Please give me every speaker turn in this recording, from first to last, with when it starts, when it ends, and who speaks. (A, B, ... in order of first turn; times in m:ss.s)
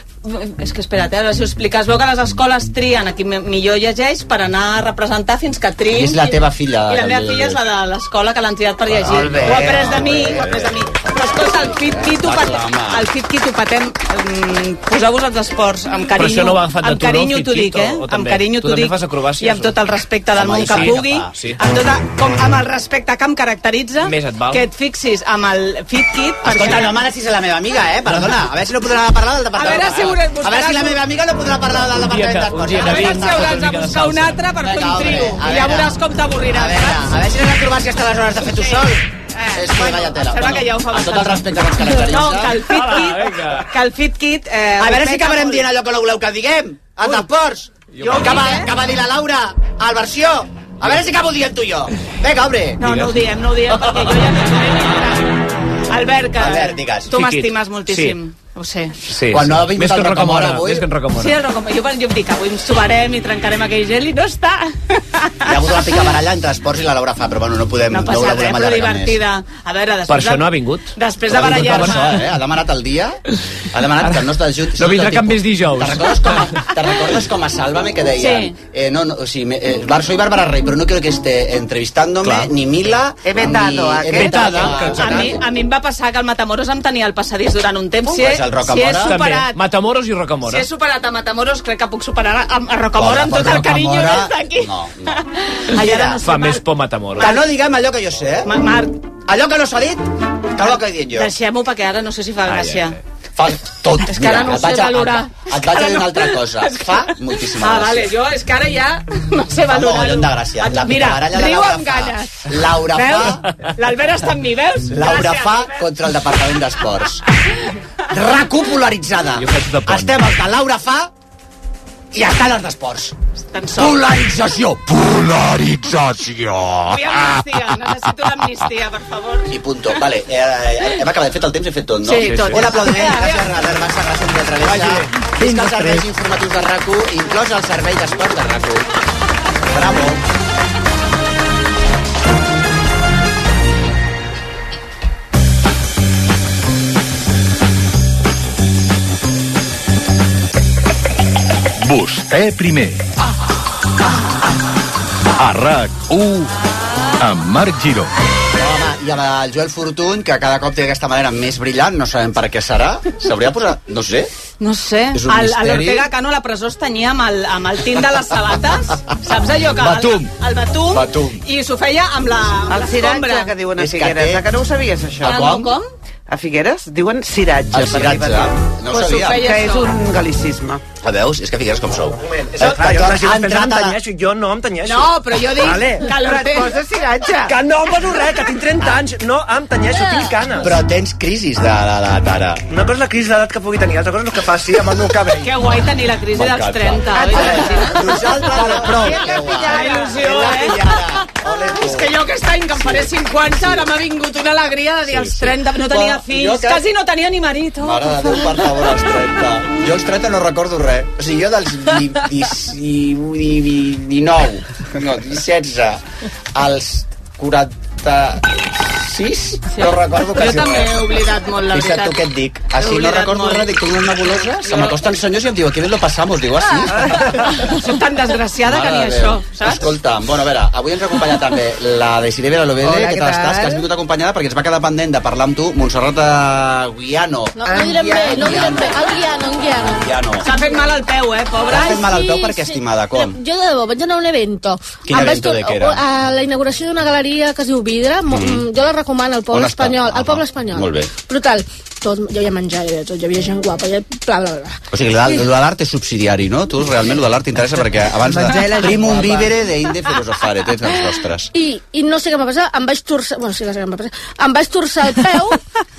0:00.2-0:27.0 A
0:05.9-0:07.6 B
0:08.9-0:13.0 B
0:09.4-0:09.9 C
0:16.2-0:19.7 D
0:20.3-0:21.3 B
0:20.6-0:21.6 D
0:24.0-0:24.6 D
0:26.4-0:33.6 B
0:28.0-0:28.4 D
0:29.5-0:31.0 A
0:31.7-0:34.4 D
0:32.8-0:37.0 A
0:34.6-0:36.0 B
0:36.5-0:42.6 B
0:38.4-0:45.6 A
0:42.6-0:43.7 D
0:44.8-0:52.8 B
0:47.9-0:48.3 D
0:48.0-0:48.7 A
0:52.8-0:55.3 A
0:52.8-0:53.1 D
0:55.9-0:59.0 A
0:56.4-0:57.1 B
0:57.1-0:58.1 D
0:59.1-1:01.3 D
0:59.3-1:00.9 B
1:01.2-1:05.6 A
1:05.4-1:09.2 B
1:07.9-1:12.2 A
1:10.1-1:12.0 D
1:11.3-1:13.2 B
1:13.7-1:25.4 B
1:14.0-1:14.2 D
1:14.8-1:16.6 D
1:18.2-1:18.5 A
1:22.2-1:22.5 D
1:23.2-1:24.7 C
1:24.1-1:25.3 D
1:24.8-1:29.6 A
1:28.0-1:29.2 B
1:29.0-1:30.6 D
1:30.4-1:36.6 A
1:33.0-1:35.1 B
1:35.7-1:36.2 B
1:36.2-1:37.3 D
1:37.2-1:37.4 A
1:37.2-1:38.5 B
1:38.4-1:39.0 A
1:39.3-1:40.0 B
1:40.6-1:41.3 B
1:40.6-1:43.0 A
1:42.5-1:43.0 D
1:43.4-1:48.1 B
1:44.0-1:55.8 A
1:49.7-1:53.4 B
1:54.9-1:57.2 B
1:58.1-2:01.1 B
1:59.4-2:00.3 D
2:02.1-2:03.1 B
2:03.5-2:04.1 A
2:03.8-2:07.0 B
2:06.9-2:09.5 A
2:09.5-2:18.8 B
2:12.0-2:13.5 A
2:12.2-2:12.6 D
2:19.7-2:20.2 B
2:31.8-2:33.0 E
2:35.4-2:36.5 E
2:37.2-2:38.1 E
2:38.5-2:44.3 B
2:44.6-2:53.5 A
2:45.1-2:46.1 B
2:49.8-2:50.3 B
2:50.9-2:51.4 B
2:52.7-2:55.5 C
2:53.8-2:54.4 B
2:55.2-2:55.7 B
2:55.2-2:55.8 A
2:56.3-3:00.8 C
2:57.7-2:59.4 B
2:58.9-2:59.9 A
3:01.0-3:04.0 B
3:02.5-3:06.1 F
3:04.8-3:06.8 A
3:06.2-3:07.5 C
3:07.5-3:10.8 F
3:10.6-3:12.6 B
3:12.7-3:15.5 F
3:15.4-3:21.0 A
3:16.3-3:22.2 B
3:17.1-3:20.8 C
3:21.6-3:28.6 A
3:22.8-3:23.9 B
3:25.0-3:26.8 B
3:27.8-3:36.0 B
3:36.5-3:41.1 B
3:39.8-3:42.2 A
3:41.7-3:47.6 B
3:42.7-3:43.7 A
3:44.6-3:45.0 A
3:47.4-3:49.8 A
3:48.6-3:59.1 B
3:52.8-3:53.8 C
3:57.6-4:00.7 G
3:57.7-3:58.8 C
3:59.8-4:00.5 B
4:00.4-4:02.1 A
4:01.7-4:03.4 B
4:01.7-4:14.8 G
4:05.0-4:06.0 B
4:08.3-4:08.6 B
4:09.5-4:11.1 B
4:14.9-4:21.5 B
4:21.5-4:25.6 G